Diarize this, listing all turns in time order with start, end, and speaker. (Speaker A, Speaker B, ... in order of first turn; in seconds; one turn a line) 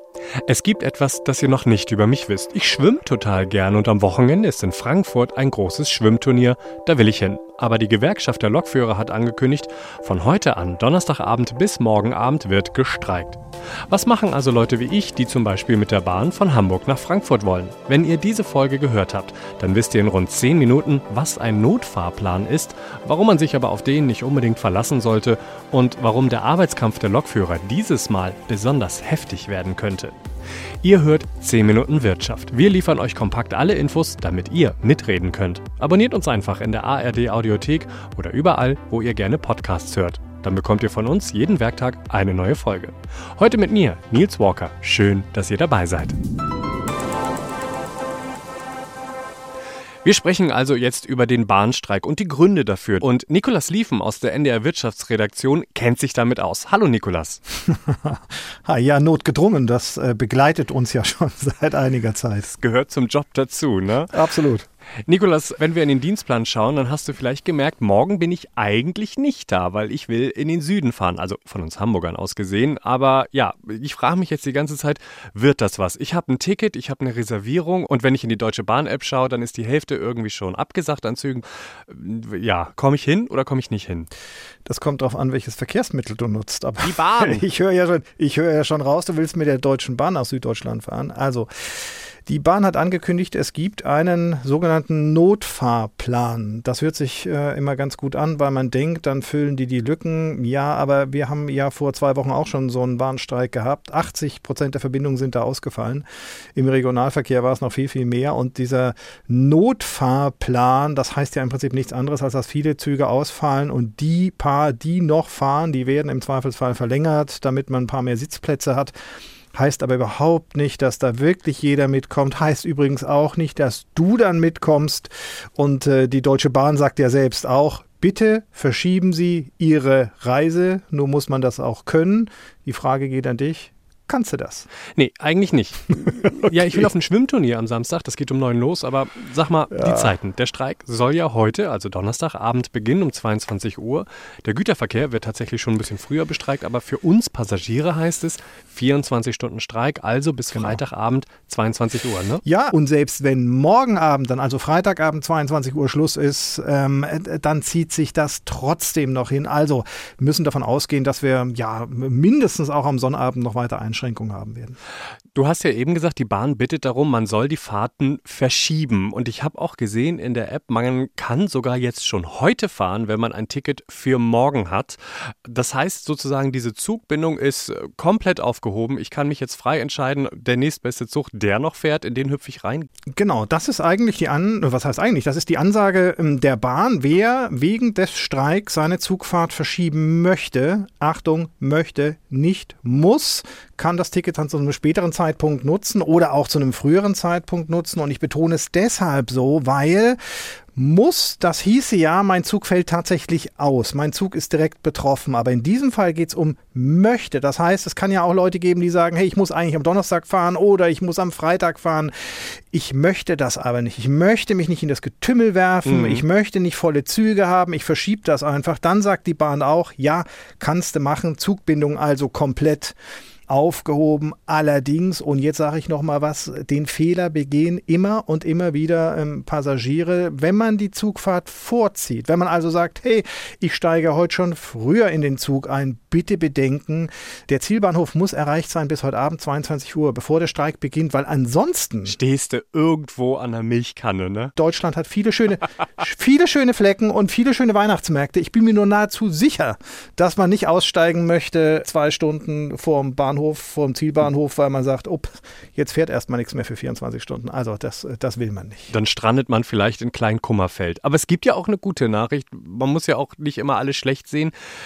Speaker A: 0.5-30.2
Speaker A: 30.8-46.2
Speaker A: 50.0-57.4
Speaker B: 57.7-62.5
Speaker A: 62.5-64.2
Speaker B: 64.1-64.7
Speaker A: 65.1-84.1
Speaker B: 84.7-118.9
Speaker A: 86.8-87.5
Speaker B: 119.5-134.7
Speaker A: 134.9-152.4
Speaker B: 136.1-136.9
Speaker B: 139.8-140.1
Speaker B: 150.5-150.8
Speaker B: 152.4-164.8
Speaker A: 165.3-182.9
Speaker B: 183.2-200.2
Speaker B: 200.8-223.0
Speaker A: 215.9-216.2
Speaker B: 223.5-242.2
Speaker A: 242.1-244.5
Speaker B: 244.6-258.9
Speaker A: 258.9-264.5